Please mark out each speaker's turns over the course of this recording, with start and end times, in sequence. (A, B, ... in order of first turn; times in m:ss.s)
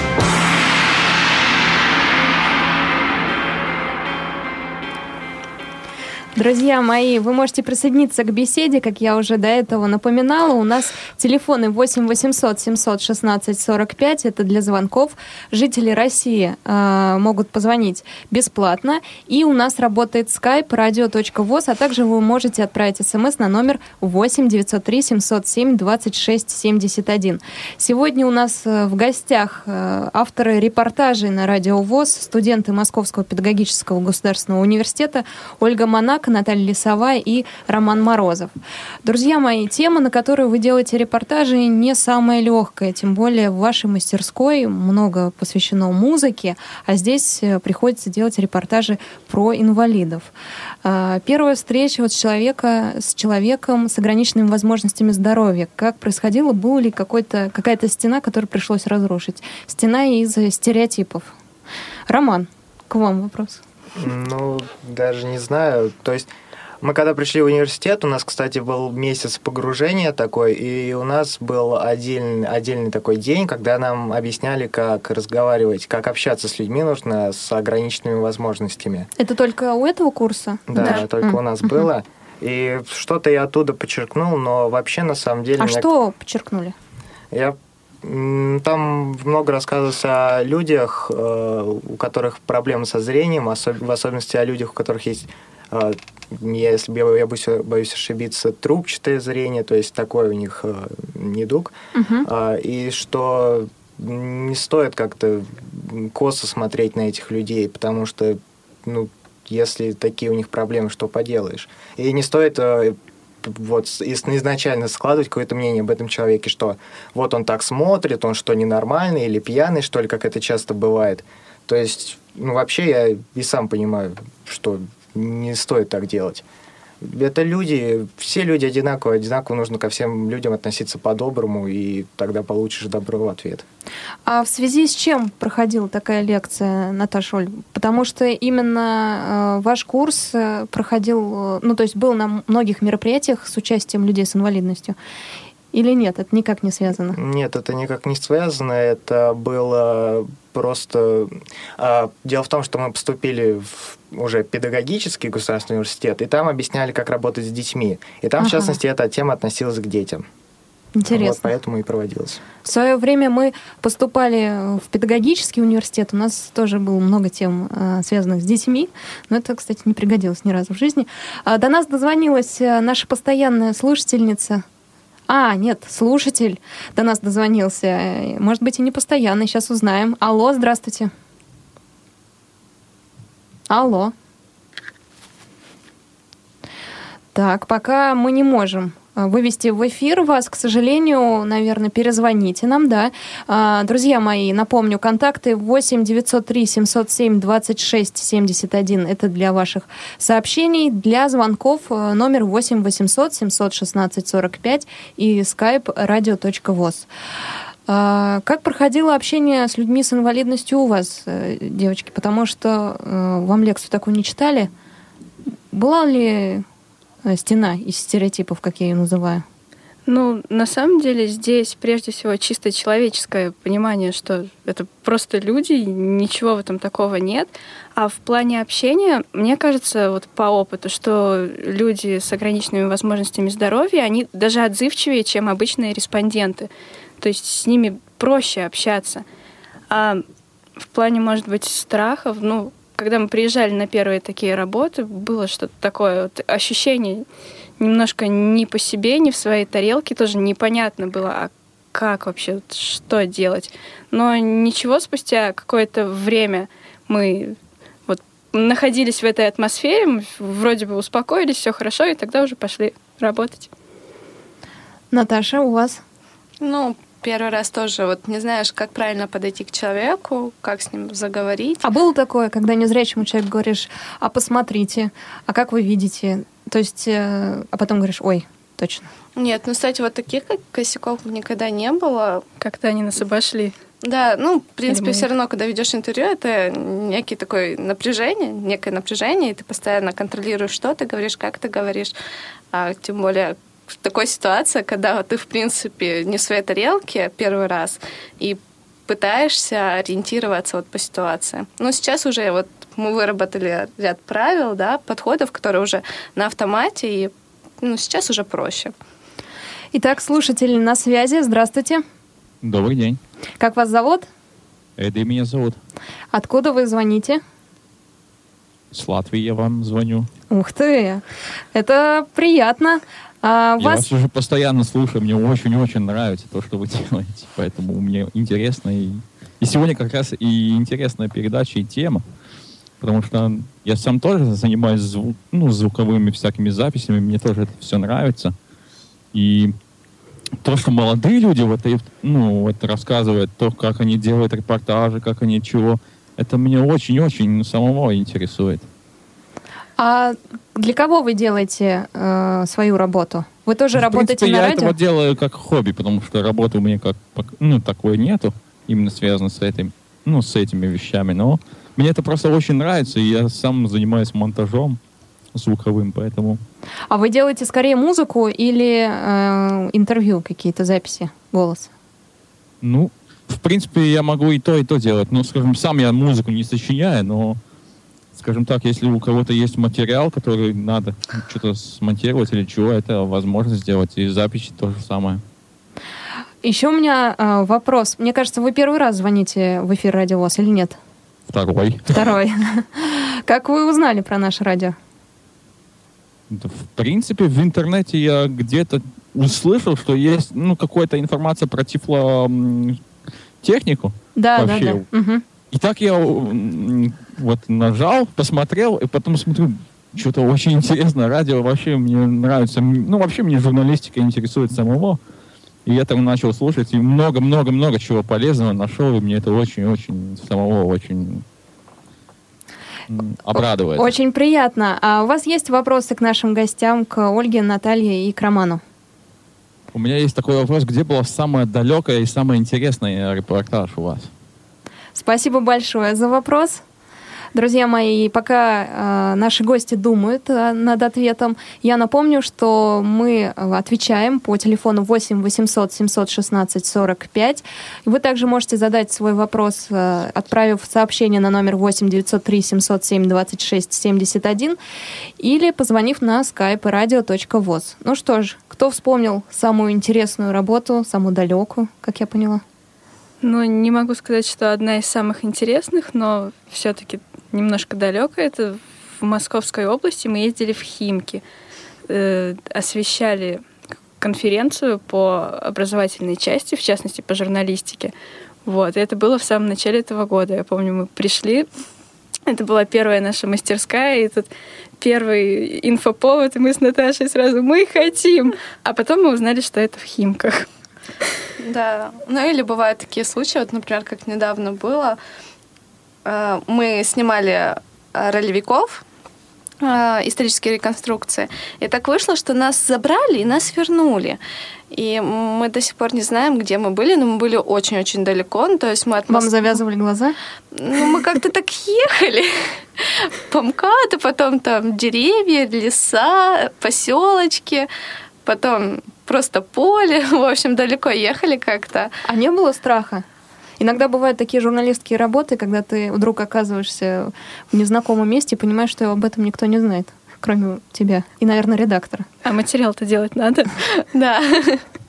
0:06.3-0:38.5 A
0:39.0-0:50.3 A
0:50.8-1:01.3 A
1:02.1-1:03.6 A
1:04.0-1:06.3 B
1:06.8-1:19.1 B
1:19.2-1:21.4 A
1:20.7-1:25.9 B
1:25.6-1:26.7 A
1:27.3-2:06.4 B
1:41.9-1:42.3 A
2:07.0-2:13.6 B
2:14.2-2:25.0 A
2:25.7-2:27.2 A
2:27.1-2:40.2 B
2:38.4-2:38.8 A
2:41.0-2:41.4 A
2:41.1-2:42.4 B
2:42.6-2:54.6 A
2:55.3-3:01.1 A
3:03.7-3:04.1 A
3:07.3-3:27.1 A
3:27.9-3:34.7 A
3:35.7-3:36.6 A
3:37.2-3:39.4 A
3:40.1-3:56.7 C
3:57.2-3:59.2 C
3:59.9-4:00.2 C
4:00.8-4:07.2 C
4:07.8-4:17.6 C
4:18.1-4:23.7 C
4:25.1-4:26.0 A
4:26.6-4:31.8 D
4:31.8-4:39.1 A
4:39.4-4:42.4 D
4:42.6-4:43.7 C
4:44.0-4:52.1 D
4:44.9-4:45.3 C
4:52.7-5:08.9 D
5:09.9-5:12.0 A
5:12.6-5:13.2 E
5:13.6-5:14.3 A
5:15.0-5:15.8 E
5:16.3-5:17.4 A
5:18.9-5:20.3 E
5:20.5-5:24.0 A
5:23.8-5:32.2 E
5:33.0-5:38.5 E
5:39.3-5:39.7 E
5:40.6-5:48.9 E
5:50.0-5:54.9 A
5:53.9-6:05.0 E
6:05.5-6:06.6 E
6:07.1-6:11.9 A
6:12.8-6:17.6 E
6:18.3-6:25.4 E
6:26.6-6:31.0 A
6:31.5-6:32.3 E
6:32.1-6:35.0 A
6:36.5-6:43.0 E
6:43.6-6:45.0 E
6:44.3-6:45.4 A
6:45.7-6:55.2 E
6:55.8-7:01.4 E
7:03.1-7:04.1 E
7:03.9-7:08.8 A
7:09.9-7:14.3 E
7:15.1-7:16.8 A
7:17.5-7:34.8 A
7:35.4-7:42.6 A
7:43.4-7:51.4 C
7:52.1-7:53.6 C
7:54.2-7:58.1 C
7:58.6-8:01.7 C
8:02.5-8:04.5 C
8:05.0-8:10.7 C
8:11.6-8:15.2 D
8:16.2-8:19.0 D
8:19.8-8:24.4 D
8:24.9-8:29.8 D
8:29.3-8:30.4 A
8:30.7-8:37.9 D
8:38.4-8:42.1 D
8:42.2-8:43.2 A
8:43.8-8:52.3 A
8:52.4-8:53.8 C
8:54.1-8:54.8 D